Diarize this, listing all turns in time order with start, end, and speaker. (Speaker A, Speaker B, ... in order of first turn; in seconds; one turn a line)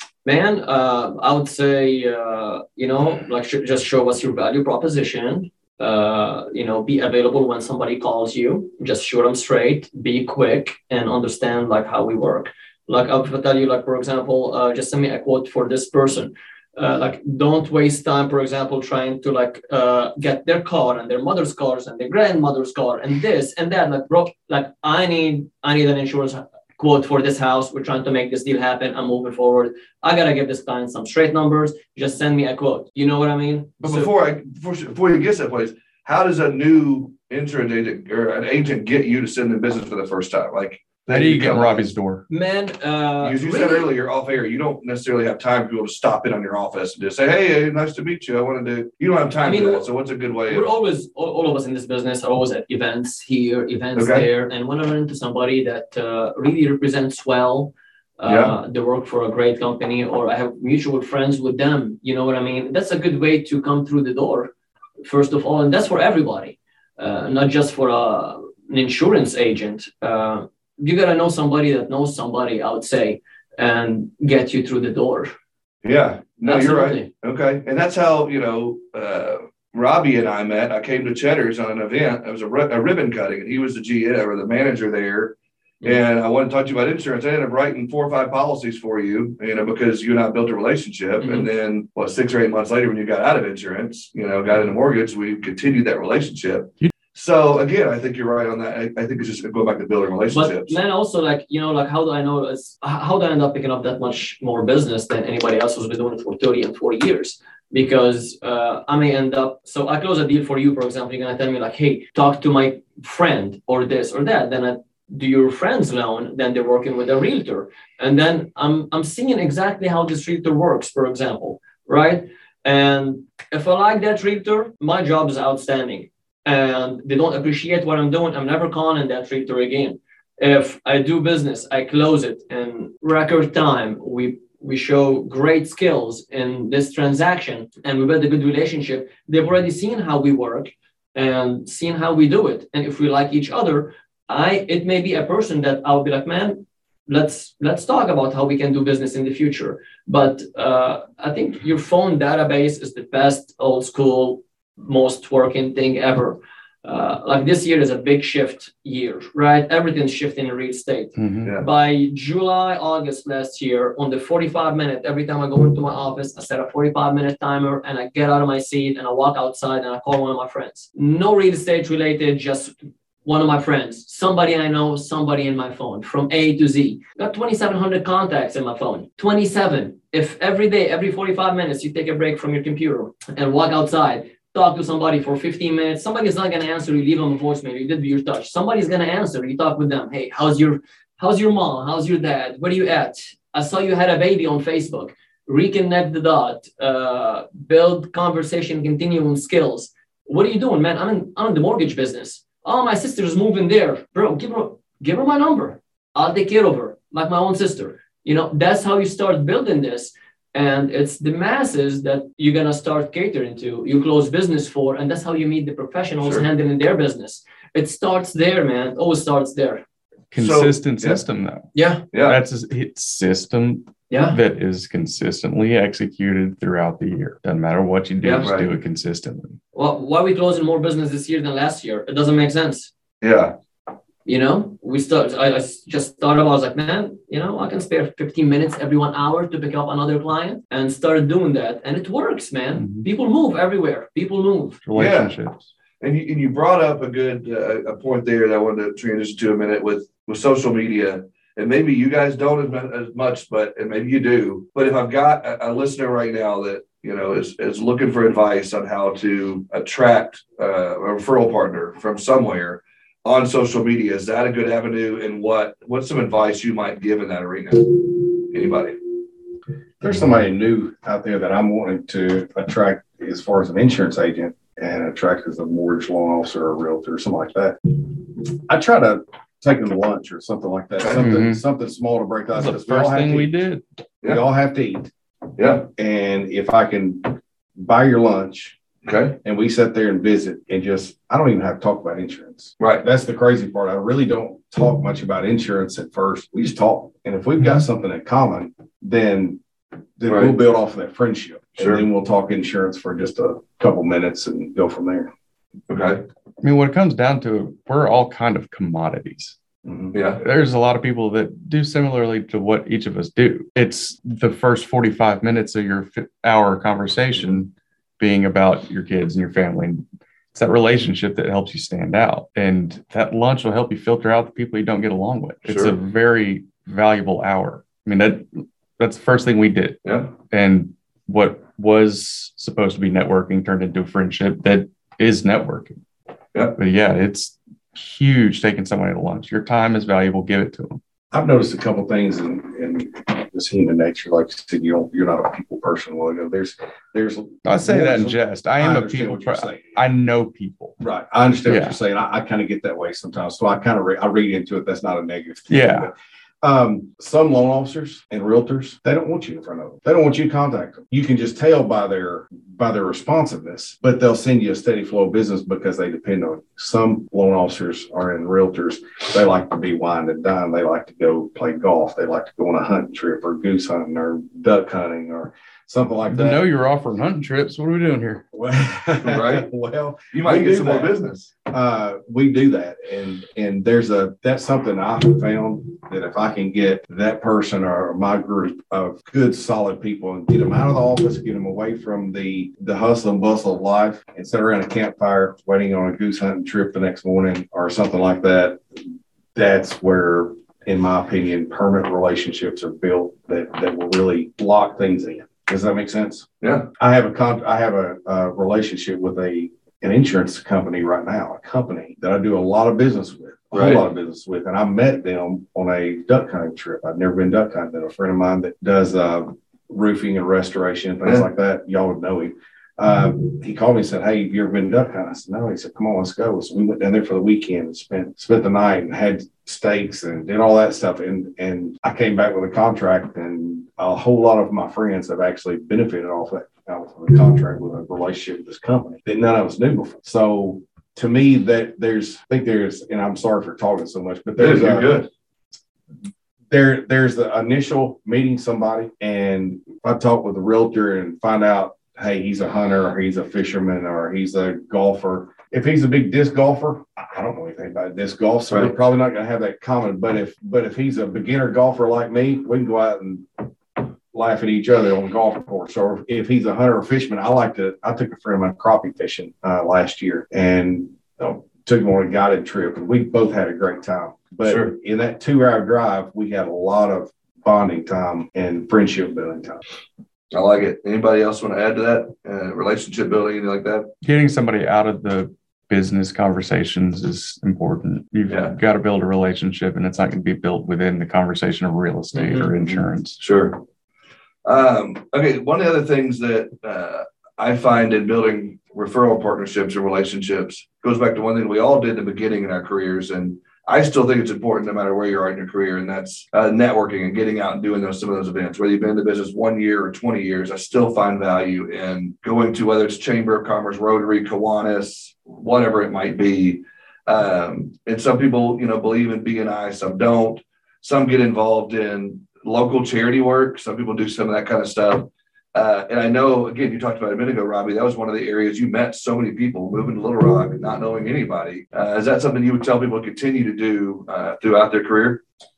Speaker A: 0.2-34.1
Speaker B: 33.8-41.9
Speaker C: 41.1-42.2
Speaker A: 42.3-43.9
Speaker B: 43.2-50.7
Speaker A: 49.4-49.9
Speaker A: 50.5-64.5
Speaker B: 54.0-54.3
Speaker B: 58.3-58.5
Speaker A: 65.0-75.3
Speaker B: 75.8-100.8
Speaker A: 76.5-77.1
Speaker A: 91.2-91.5
Speaker A: 100.3-219.8
Speaker C: 161.2-161.5
Speaker C: 220.3-229.6
Speaker B: 220.4-221.2
Speaker A: 221.8-222.0
Speaker B: 222.1-222.4
Speaker A: 224.1-224.4
Speaker B: 228.2-228.7
Speaker A: 229.7-232.9
Speaker B: 233.2-233.6
Speaker A: 234.3-244.8
Speaker C: 242.8-243.1
Speaker C: 244.8-245.7
Speaker B: 244.9-245.4
Speaker B: 246.0-269.0
Speaker D: 270.0-283.5
Speaker C: 281.2-281.6
Speaker C: 282.6-283.8
Speaker D: 284.2-285.1
Speaker B: 285.6-285.9
Speaker D: 286.0-288.8
Speaker B: 289.1-289.4
Speaker D: 289.4-299.6
Speaker C: 297.6-297.9
Speaker D: 300.2-305.3
Speaker B: 300.3-300.5
Speaker B: 301.8-302.1
Speaker B: 305.9-306.2
Speaker C: 306.6-309.6
Speaker D: 309.9-310.2
Speaker B: 310.1-310.4
Speaker C: 310.4-336.0
Speaker B: 325.7-325.9
Speaker B: 330.0-330.3
Speaker C: 336.8-341.0
Speaker D: 341.3-350.0
Speaker C: 347.6-351.0
Speaker D: 351.0-376.6
Speaker C: 351.7-352.0
Speaker C: 355.7-356.1
Speaker C: 376.3-378.4
Speaker D: 378.5-398.8
Speaker B: 379.2-379.7
Speaker B: 380.3-381.5
Speaker D: 399.6-406.5
Speaker B: 406.6-406.9
Speaker D: 407.0-445.2
Speaker B: 413.7-414.0
Speaker B: 444.6-445.3
Speaker D: 446.7-479.8
Speaker B: 474.6-474.9
Speaker B: 480.5-484.1
Speaker C: 484.2-493.4
Speaker B: 488.5-488.8
Speaker A: 492.4-492.7
Speaker B: 492.8-493.8
Speaker B: 494.6-535.4